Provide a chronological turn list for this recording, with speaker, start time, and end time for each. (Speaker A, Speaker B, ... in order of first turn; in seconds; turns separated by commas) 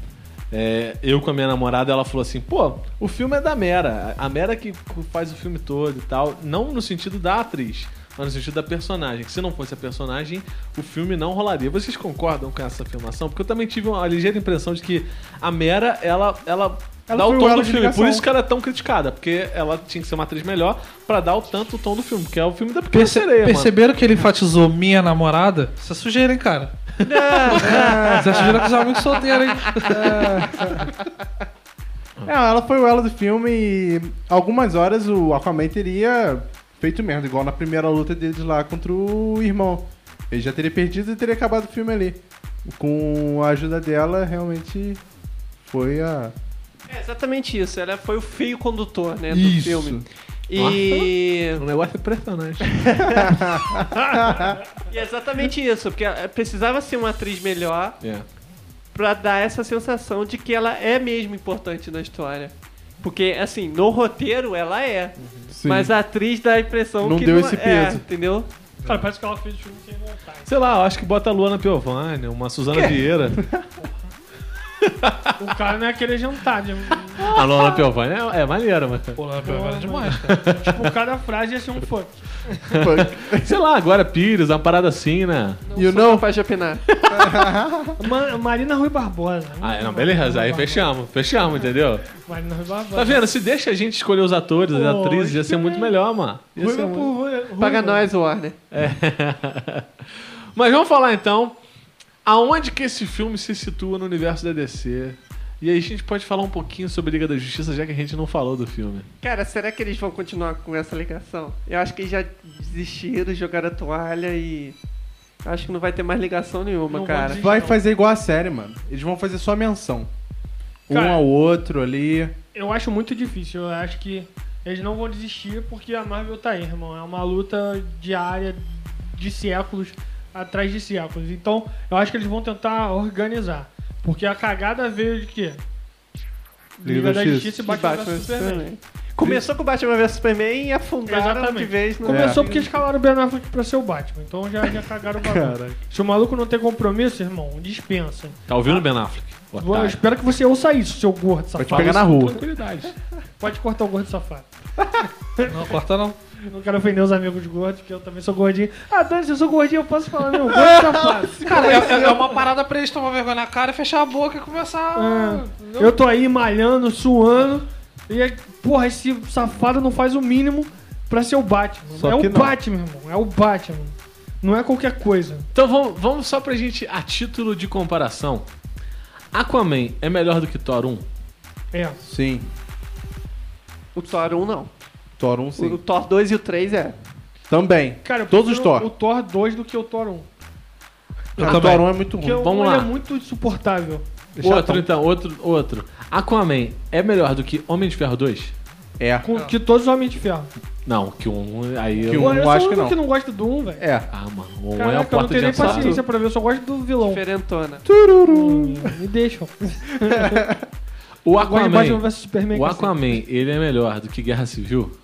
Speaker A: 0.5-23.7, Speaker B: 17.1-18.3, Speaker C: 22.9-30.9, Speaker D: 27.0-28.4, Speaker B: 27.6-28.7, Speaker B: 29.9-30.9, Speaker B: 32.2-45.0, Speaker B: 45.6-46.3, Speaker D: 46.9-51.6, Speaker B: 49.3-50.1, Speaker A: 50.6-52.8, Speaker D: 52.6-53.4, Speaker B: 53.1-54.6, Speaker D: 54.9-58.0, Speaker A: 58.0-58.3, Speaker D: 58.9-65.1, Speaker B: 65.5-65.9, Speaker D: 65.7-68.5, Speaker B: 67.0-68.0, Speaker E: 68.9-70.5, Speaker A: 70.5-73.5, Speaker A: 74.8-75.3, Speaker E: 75.4-77.4, Speaker A: 76.9-79.2, Speaker C: 79.2-80.5, Speaker E: 79.4-82.5, Speaker A: 80.2-80.9, Speaker A: 82.7-85.6, Speaker B: 82.7-83.5, Speaker D: 85.7-86.8, Speaker B: 85.8-86.3, Speaker A: 86.9-87.5, Speaker B: 87.1-88.0, Speaker E: 88.0-90.9, Speaker A: 89.6-92.1, Speaker E: 92.1-93.2, Speaker A: 92.9-97.1, Speaker E: 94.7-96.0, Speaker E: 96.6-98.0, Speaker D: 97.6-98.6, Speaker A: 98.7-101.6, Speaker A: 102.2-109.1, Speaker D: 109.2-114.8, Speaker D: 115.5-117.4, Speaker E: 116.9-117.8, Speaker B: 117.4-120.1, Speaker B: 120.9-122.3, Speaker E: 120.9-121.2, Speaker E: 122.5-135.6, Speaker E: 136.8-138.7, Speaker B: 136.8-137.6, Speaker D: 137.6-142.4, Speaker B: 139.2-139.4, Speaker E: 141.1-148.8, Speaker B: 142.1-142.7, Speaker B: 145.2-145.8, Speaker A: 148.5-150.0, Speaker E: 149.6-152.0, Speaker B: 151.6-152.4, Speaker A: 151.7-153.0, Speaker E: 153.4-154.5, Speaker B: 154.8-155.1, Speaker E: 155.4-155.8, Speaker C: 155.5-156.2, Speaker E: 156.4-162.4, Speaker B: 160.5-162.3, Speaker C: 161.4-166.0, Speaker E: 164.9-175.5, Speaker B: 172.0-172.6, Speaker A: 175.5-178.5, Speaker A: 179.3-181.1, Speaker E: 181.7-182.0, Speaker B: 182.0-182.5, Speaker D: 183.9-184.7, Speaker B: 185.2-185.8, Speaker D: 185.6-187.0, Speaker B: 187.5-188.9, Speaker E: 188.0-190.3, Speaker A: 191.4-192.9, Speaker C: 191.4-191.9, Speaker B: 191.4-192.4, Speaker E: 192.1-194.1, Speaker B: 194.4-194.9, Speaker A: 194.4-198.5, Speaker B: 199.0-199.3, Speaker E: 199.2-200.5, Speaker A: 200.8-202.5, Speaker E: 201.9-203.9, Speaker B: 202.1-203.0, Speaker B: 203.8-204.1, Speaker A: 204.1-206.0, Speaker E: 204.8-207.2, Speaker D: 207.0-207.9, Speaker B: 207.8-209.0, Speaker E: 208.3-210.5, Speaker B: 210.0-210.6, Speaker A: 211.2-214.9, Speaker E: 211.4-213.2